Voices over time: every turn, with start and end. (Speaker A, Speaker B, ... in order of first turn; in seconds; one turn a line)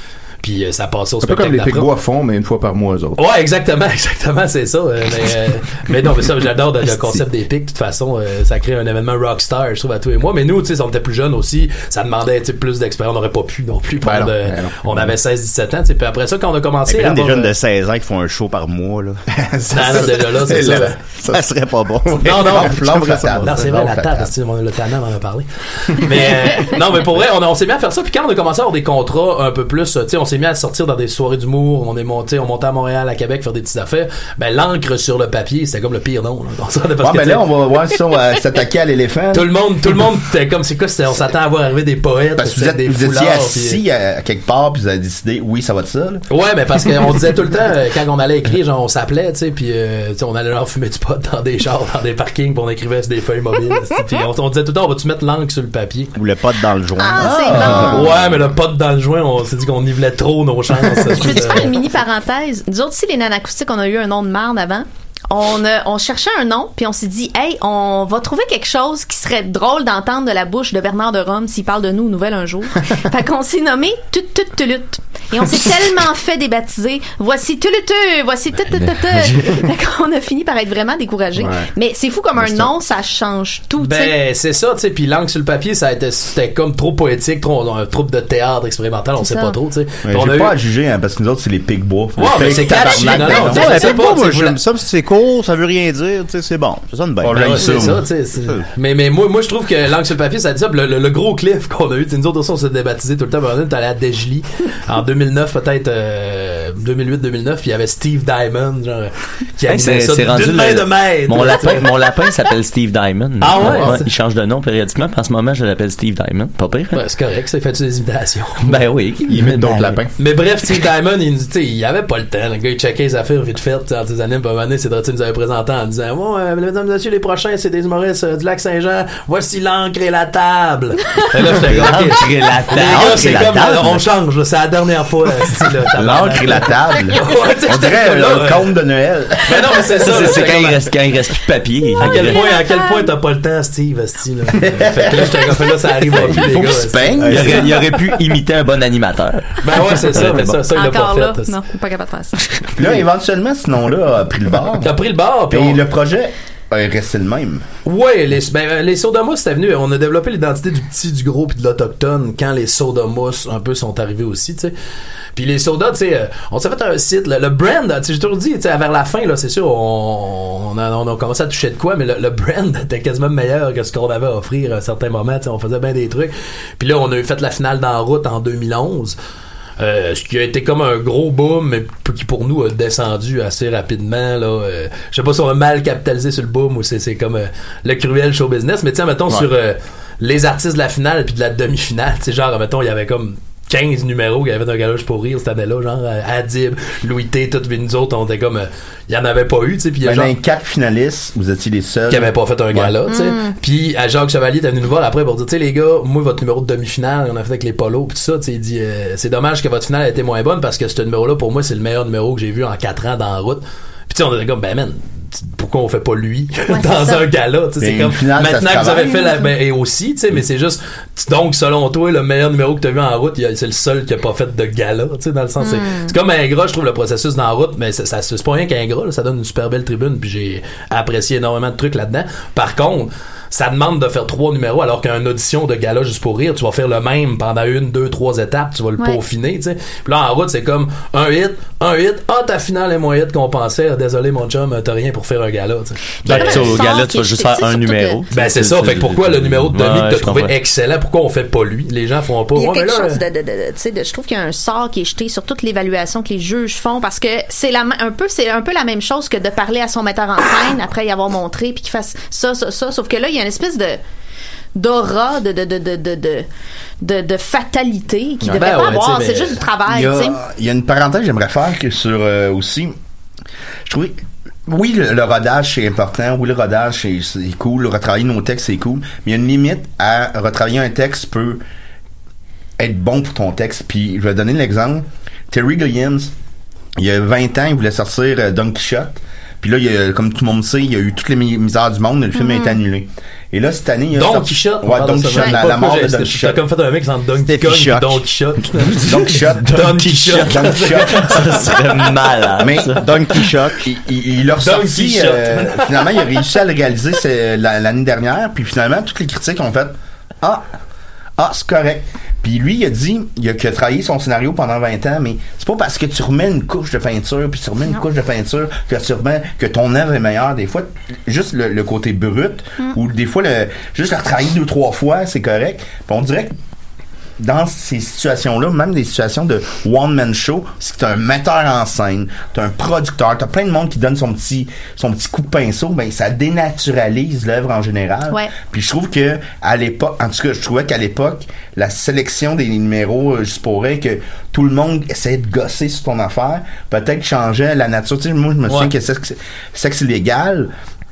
Speaker A: 0.4-1.9
Speaker B: 1.2-3.2
Speaker A: 3.1-17.5
Speaker B: 14.0-15.1
Speaker C: 16.9-19.2
Speaker B: 19.4-21.5
Speaker A: 19.7-21.0
Speaker C: 19.8-20.2
Speaker C: 21.3-23.4
Speaker B: 22.0-22.3
Speaker A: 22.2-37.6
Speaker D: 22.3-24.3
Speaker D: 37.0-39.5
Speaker A: 39.3-43.8
Speaker D: 42.4-46.2
Speaker A: 46.3-56.1
Speaker C: 56.1-58.1
Speaker E: 57.0-57.9
Speaker D: 57.2-58.0
Speaker B: 57.6-58.1
Speaker A: 57.6-61.7
Speaker E: 60.9-84.2
Speaker F: 79.0-79.5
Speaker B: 81.3-81.7
Speaker A: 83.8-90.5
Speaker E: 89.2-89.6
Speaker D: 90.0-94.0
Speaker A: 92.2-94.6
Speaker C: 92.3-98.7
Speaker D: 97.2-98.0
Speaker A: 97.3-111.9
Speaker F: 109.7-117.0
Speaker A: 113.4-114.1
Speaker A: 116.9-118.8
Speaker F: 118.6-120.0
Speaker B: 119.3-120.1
Speaker A: 120.2-138.7
Speaker F: 131.6-133.4
Speaker C: 131.8-132.0
Speaker C: 132.7-134.0
Speaker D: 135.9-140.1
Speaker A: 139.4-140.8
Speaker F: 140.0-142.4
Speaker A: 142.0-147.6
Speaker E: 142.2-143.1
Speaker D: 144.6-145.5
Speaker D: 146.1-147.7
Speaker C: 147.2-147.7
Speaker F: 147.2-150.6
Speaker A: 149.6-151.6
Speaker E: 150.7-152.7
Speaker D: 152.8-154.9
Speaker A: 154.8-155.8
Speaker D: 155.5-157.6
Speaker A: 157.8-164.7
Speaker A: 165.3-179.2
Speaker A: 179.8-200.3
Speaker D: 200.0-202.9
Speaker A: 202.1-246.8
Speaker E: 203.1-203.5
Speaker E: 216.7-217.3
Speaker D: 217.8-219.2
Speaker E: 225.6-226.1
Speaker E: 246.2-248.2
Speaker F: 246.2-250.5
Speaker A: 248.3-253.2
Speaker E: 252.5-264.0
Speaker E: 264.7-266.4
Speaker E: 267.0-270.4
Speaker A: 268.5-269.6
Speaker D: 269.9-272.9
Speaker D: 273.9-281.6
Speaker D: 282.8-286.3
Speaker D: 287.0-296.6
Speaker E: 292.3-292.8
Speaker A: 294.1-301.8
Speaker E: 295.3-295.6
Speaker C: 297.4-298.2
Speaker D: 299.0-301.6
Speaker F: 299.1-303.1
Speaker D: 302.6-303.0
Speaker C: 303.0-303.8
Speaker D: 303.8-310.6
Speaker A: 304.6-306.4
Speaker D: 311.4-326.5
Speaker D: 327.4-350.7
Speaker E: 338.3-338.6
Speaker A: 348.6-348.9